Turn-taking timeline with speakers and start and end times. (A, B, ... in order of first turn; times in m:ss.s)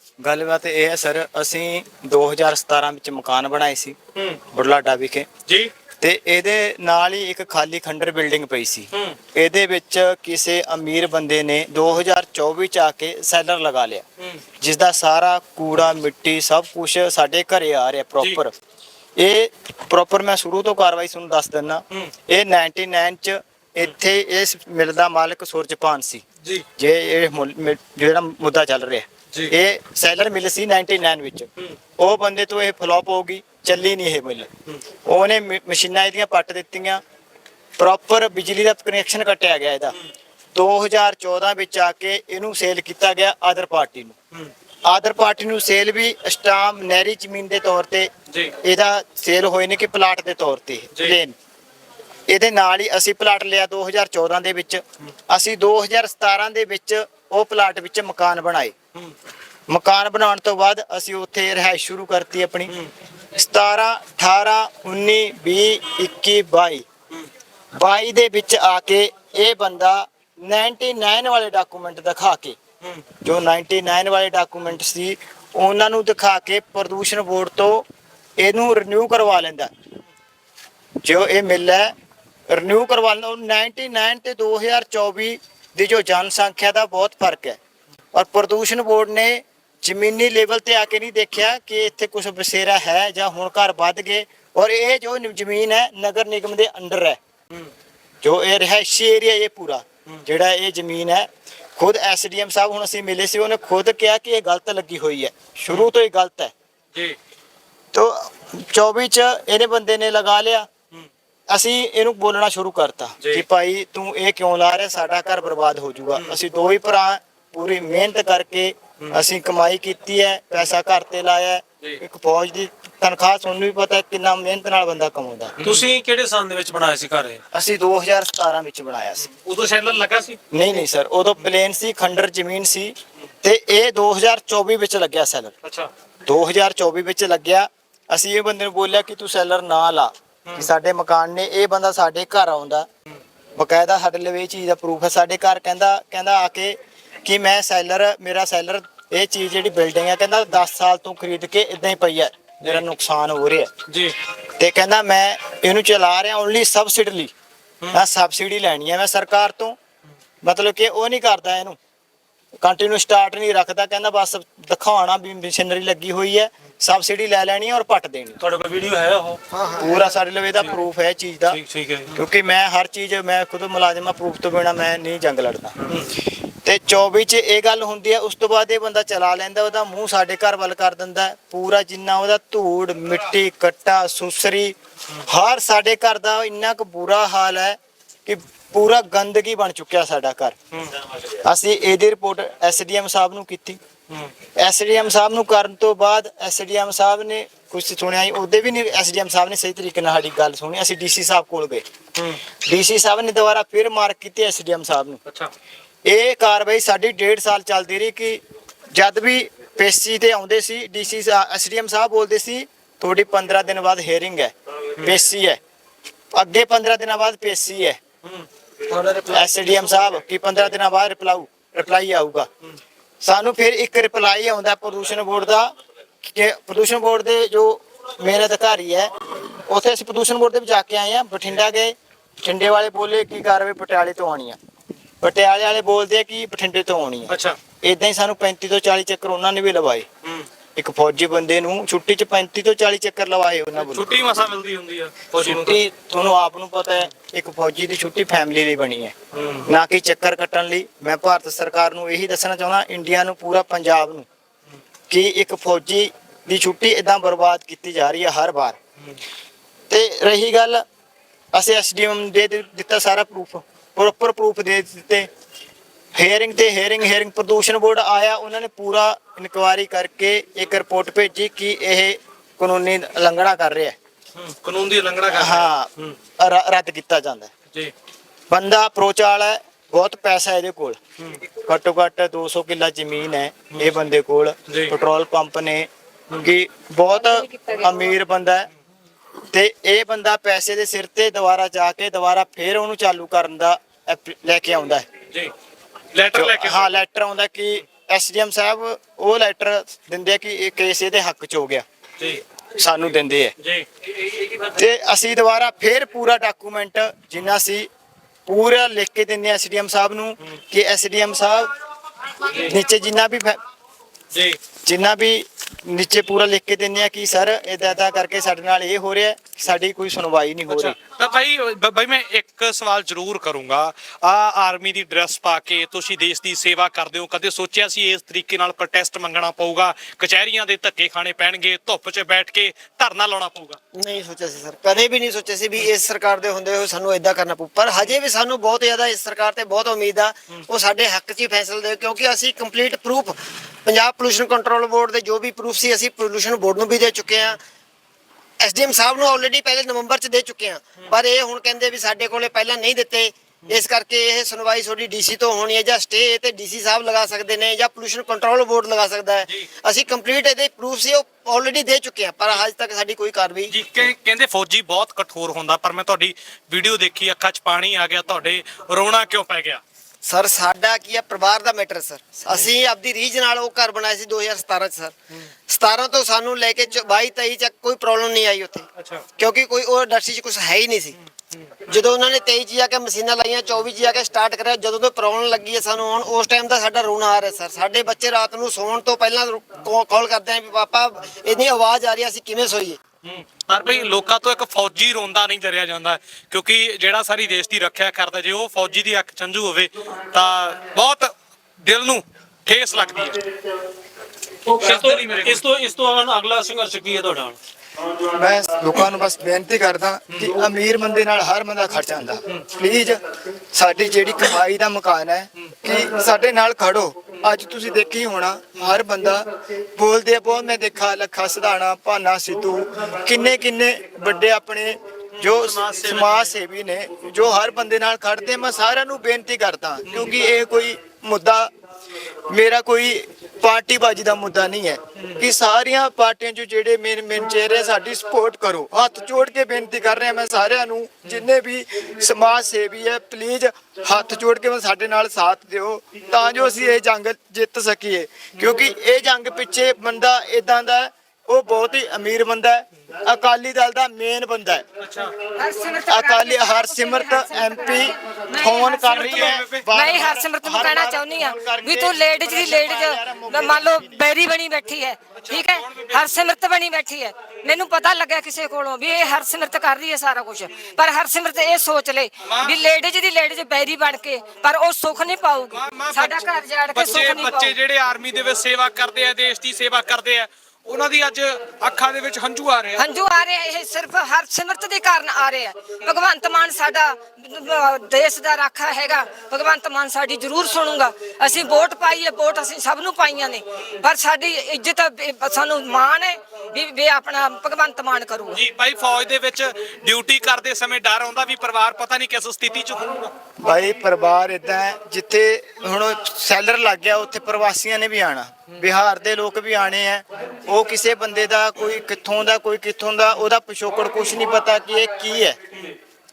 0:00.2-0:04.0 A
0:04.5-0:05.3 A
0:05.5-0:05.7 B
0:06.0-0:14.0 A
0:08.9-0:09.2 B
0:14.6-0:18.6 A
0:19.2-0:26.2 A
0:26.8-0:34.5 A
0:35.0-0:37.0 A
0:37.8-0:40.0 A
0:40.5-0:44.2 A
0:44.9-0:48.1 A
0:48.6-0:51.3 A
0:52.3-0:58.8 A
0:59.7-1:02.7 A
1:03.4-1:06.9 A
1:07.8-1:12.6 A
1:13.2-1:17.9 A
1:18.4-1:19.7 A
1:21.0-1:21.9 A
1:22.5-1:27.6 A
1:28.1-1:37.2 A
1:38.2-1:46.5 A
1:47.9-1:50.7 A
1:51.5-2:05.5 A
2:05.6-2:07.4 C
2:07.5-2:09.3 A
2:09.3-2:10.4 B
2:10.5-2:15.5 A
2:15.6-2:15.9 B
2:16.3-2:22.9 A
2:23.6-2:33.7 A
2:33.9-2:34.1 B
2:34.6-2:37.3 A
2:37.9-2:39.8 A
2:40.4-2:41.8 A
2:42.6-2:48.4 A
2:48.4-2:49.4 C
2:49.5-2:50.1 D
2:49.8-2:51.6 A
2:51.5-2:52.2 C
2:52.2-2:55.8 A
2:56.6-3:10.6 A
3:10.7-3:11.0 B
3:11.4-3:13.8 A
3:14.6-3:21.8 A
3:22.6-3:25.2 A
3:25.3-3:25.5 B
3:26.0-3:28.4 A
3:28.9-3:35.6 A
3:36.3-3:38.0 A
3:38.9-3:39.4 C
3:39.3-3:42.5 A
3:43.2-3:45.7 A
3:46.2-3:54.6 A
3:55.2-4:00.1 A
3:57.3-3:57.6 B
4:00.8-4:04.1 A
4:03.8-4:05.8 B
4:05.4-4:09.1 A
4:09.3-4:09.7 B
4:09.7-4:14.3 A
4:15.1-4:18.8 A
4:19.9-4:20.8 A
4:21.5-4:25.3 A
4:26.2-4:34.0 A
4:34.4-4:36.2 B
4:35.3-4:37.5 A
4:38.5-4:41.0 A
4:41.6-4:45.9 A
4:44.7-4:45.0 B
4:46.4-4:48.7 A
4:47.3-4:47.8 E
4:49.5-4:55.1 A
4:56.1-4:57.0 B
4:56.3-5:01.8 A
5:02.8-5:03.6 A
5:04.7-5:07.9 A
5:08.5-5:11.7 A
5:12.5-5:12.8 B
5:12.6-5:13.6 A
5:14.3-5:14.6 B
5:14.8-5:21.0 A
5:20.7-5:33.8 B
5:33.9-5:47.6 D
5:48.6-6:03.8 D
6:03.7-6:09.8 B
6:10.2-6:15.2 D
6:15.7-6:21.2 D
6:19.0-6:19.2 B
6:21.9-6:33.0 D
6:33.2-6:43.4 B
6:44.7-6:47.6 C
6:44.8-6:45.6 B
6:48.2-6:53.2 A
6:53.7-7:11.7 A
7:05.4-7:06.3 B
7:12.5-7:34.9 A
7:35.0-7:35.4 B
7:35.6-7:57.7 E
7:36.1-7:44.3 A
7:39.2-7:39.8 B
7:45.4-7:46.3 B
7:52.4-7:52.7 B
7:55.7-8:03.0 B
8:03.0-8:18.6 E
8:18.5-8:23.3 B
8:23.6-8:35.6 A